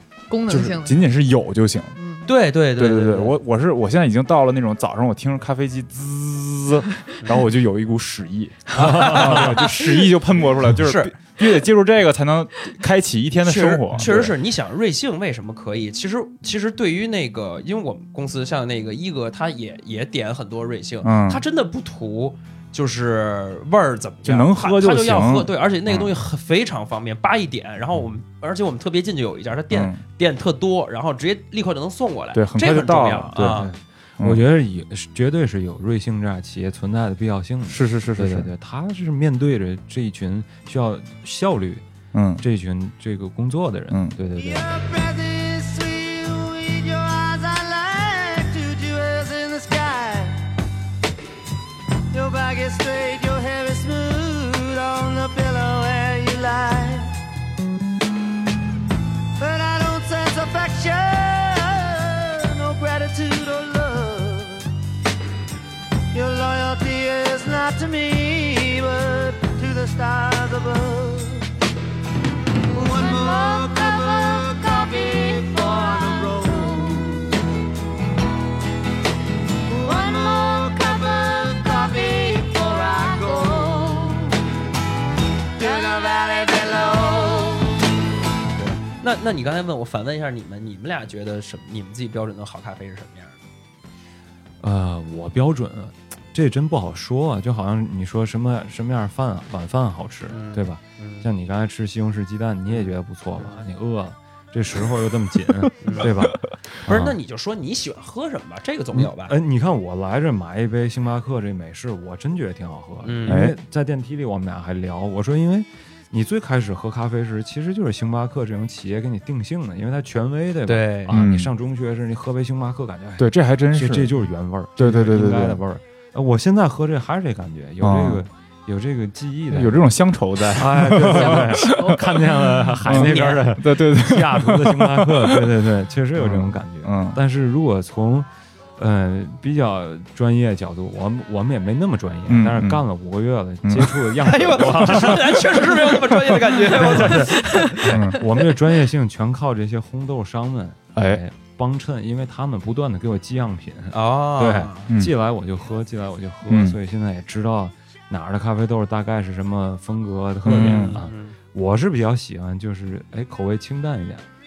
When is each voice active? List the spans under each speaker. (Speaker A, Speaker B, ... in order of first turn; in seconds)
Speaker A: 0.3-1.0, 2.0-2.3, 131.0-132.1
Speaker B: 0.5-2.0, 2.7-14.3, 21.0-21.4, 24.2-26.1, 29.7-30.0, 32.3-33.7, 37.7-38.5, 42.1-42.4, 43.9-44.2, 113.3-113.5, 121.1-121.5, 123.2-124.1, 124.8-125.6, 127.8-128.2, 129.5-132.0, 132.8-135.5, 136.2-137.2, 142.3-142.8, 143.6-144.1, 146.3-147.2, 147.9-148.2, 150.9-151.2, 156.5-156.8, 160.4-161.0
Speaker C: 2.2-3.4, 8.7-11.1, 13.4-33.7, 88.5-93.4, 100.3-101.3, 102.7-103.6, 105.8-106.1, 106.9-109.4, 113.0-113.4, 120.7-121.2, 132.9-133.4, 144.2-148.0, 153.9-154.9, 160.4-161.3
Speaker D: 8.8-9.6, 33.4-41.9, 42.4-44.7, 94.6-107.2, 108.9-129.9, 130.5-145.9, 146.6-164.2
Speaker E: 44.4-50.5, 52.1-57.1, 59.4-64.7, 66.1-71.5, 72.7-77.4, 79.7-84.4, 85.6-87.8